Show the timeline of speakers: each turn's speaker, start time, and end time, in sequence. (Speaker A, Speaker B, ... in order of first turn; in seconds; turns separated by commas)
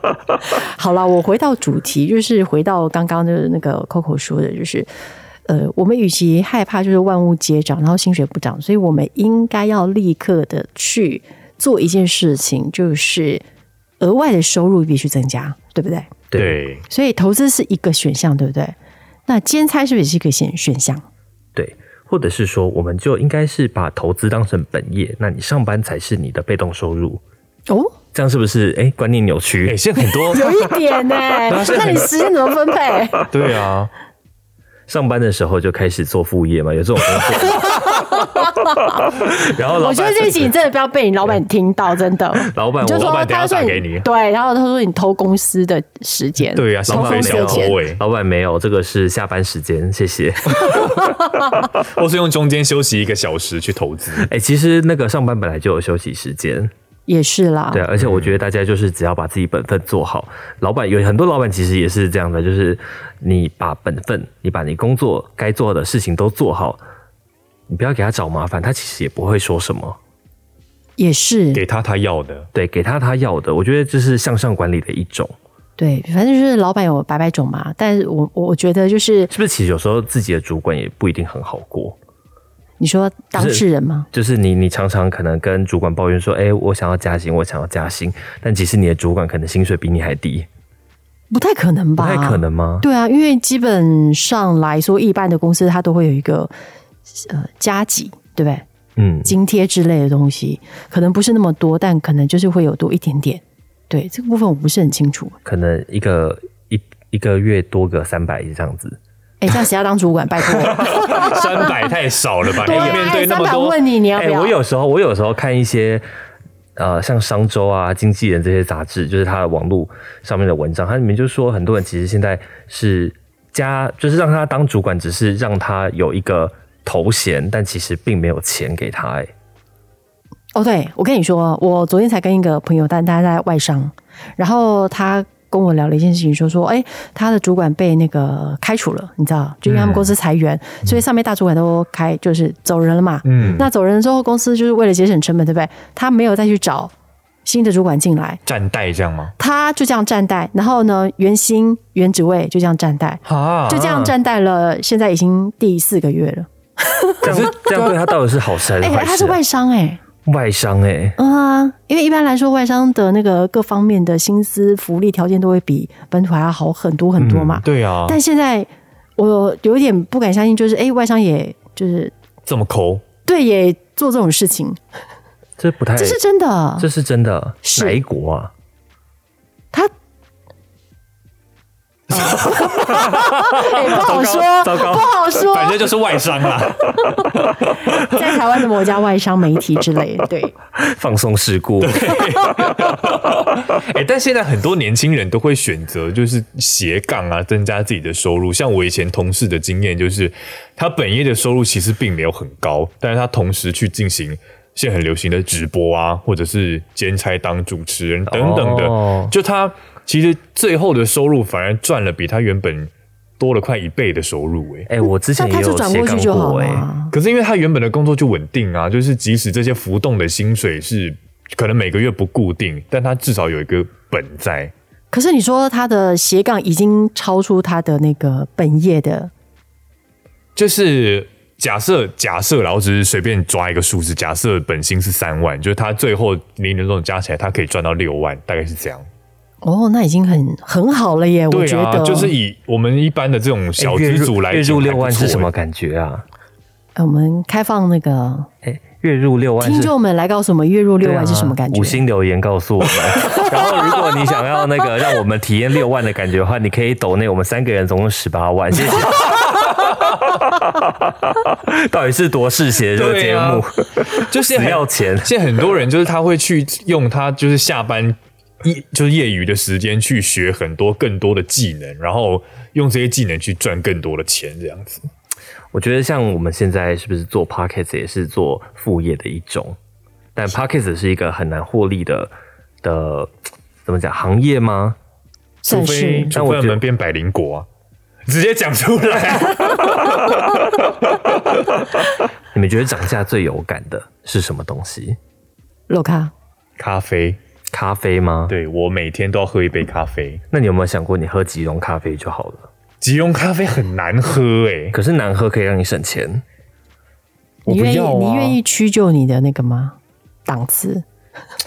Speaker A: 0.4-4.9, Speaker A: 5.5-13.4, Speaker A: 14.0-16.1, Speaker B: 16.3-16.6, Speaker C: 16.3-16.8, Speaker A: 16.9-18.7, Speaker A: 19.3-21.0, Speaker B: 21.5-27.2, Speaker A: 27.7-27.9, Speaker B: 28.1-29.8, Speaker C: 29.6-30.7, Speaker A: 30.3-33.3, Speaker C: 31.4-32.1, Speaker C: 33.3-33.9, Speaker B: 34.9-38.2, Speaker A: 37.6-38.4, Speaker B: 38.9-40.5, Speaker A: 39.7-47.8, Speaker B: 42.3-43.6, Speaker C: 42.9-44.1, Speaker C: 46.5-48.0, Speaker B: 46.9-50.9, Speaker C: 50.6-51.1, Speaker C: 51.7-54.3, Speaker B: 54.2-56.7, Speaker A: 57.1-57.8, Speaker B: 57.7-66.8, Speaker C: 58.0-58.4, Speaker B: 67.7-70.0, Speaker A: 71.0-71.6, Speaker C: 71.5-72.5, Speaker B: 72.5-75.3, Speaker A: 75.8-79.3, Speaker B: 79.3-82.0, Speaker A: 82.8-84.1, Speaker B: 83.3-90.5, Speaker A: 91.3-96.5, Speaker B: 92.0-92.8, Speaker A: 97.1-98.6, Speaker B: 99.0-99.3, Speaker A: 99.2-105.3, Speaker B: 105.4-109.0, Speaker A: 109.4-111.7, Speaker C: 110.7-113.8, Speaker A: 112.6-114.5, Speaker B: 112.7-113.1, Speaker B: 114.1-116.0, Speaker B: 116.8-129.3, Speaker A: 130.5-146.9, Speaker C: 139.7-140.1, Speaker C: 143.2-143.7, Speaker A: 147.4-148.4, Speaker C: 148.4-149.3, Speaker A: 149.4-158.0, Speaker C: 153.2-153.8, Speaker B: 153.7-154.1, Speaker C: 157.2-157.9, Speaker B: 157.2-159.4, Speaker A: 158.8-160.0, Speaker B: 160.2-161.2, Speaker A: 161.2-172.1, Speaker B: 167.2-167.6, Speaker C: 167.6-168.2, Speaker C: 172.4-173.0, Speaker A: 173.2-174.8, Speaker B: 175.6-176.2, Speaker A: 176.0-176.9, Speaker B: 176.8-178.5, Speaker A: 177.6-178.0, Speaker C: 182.1-183.3, Speaker A: 182.1-185.8, Speaker B: 183.7-185.1, Speaker C: 185.5-188.0, Speaker A: 186.9-187.2, Speaker A: 187.8-190.5, Speaker B: 190.8-192.2, Speaker C: 191.8-214.9, Speaker B: 208.3-209.3, Speaker B: 214.9-216.9, Speaker A: 215.3-217.1, Speaker C: 217.1-224.7, Speaker A: 225.1-229.3, Speaker C: 230.6-239.1, Speaker A: 239.6-242.3, Speaker C: 241.5-245.5, Speaker B: 243.8-246.2, Speaker A: 246.9-248.5, Speaker B: 248.6-249.9, Speaker A: 249.6-252.0, Speaker B: 251.0-265.3, Speaker A: 253.2-253.5, Speaker C: 262.9-275.1, Speaker B: 275.7-279.8, Speaker B: 280.3-282.3, Speaker B: 282.8-283.3, Speaker B: 283.8-285.0, Speaker A: 285.6-286.4, Speaker C: 285.6-287.7, Speaker B: 286.3-286.8, Speaker C: 288.2-291.6, Speaker B: 292.5-295.2, Speaker A: 295.9-296.3, Speaker C: 296.8-297.4, Speaker B: 297.7-298.5, Speaker C: 298.5-300.4, Speaker B: 300.5-302.7, Speaker C: 303.0-305.0, Speaker B: 304.9-306.4, Speaker C: 307.6-308.6, Speaker A: 307.6-311.0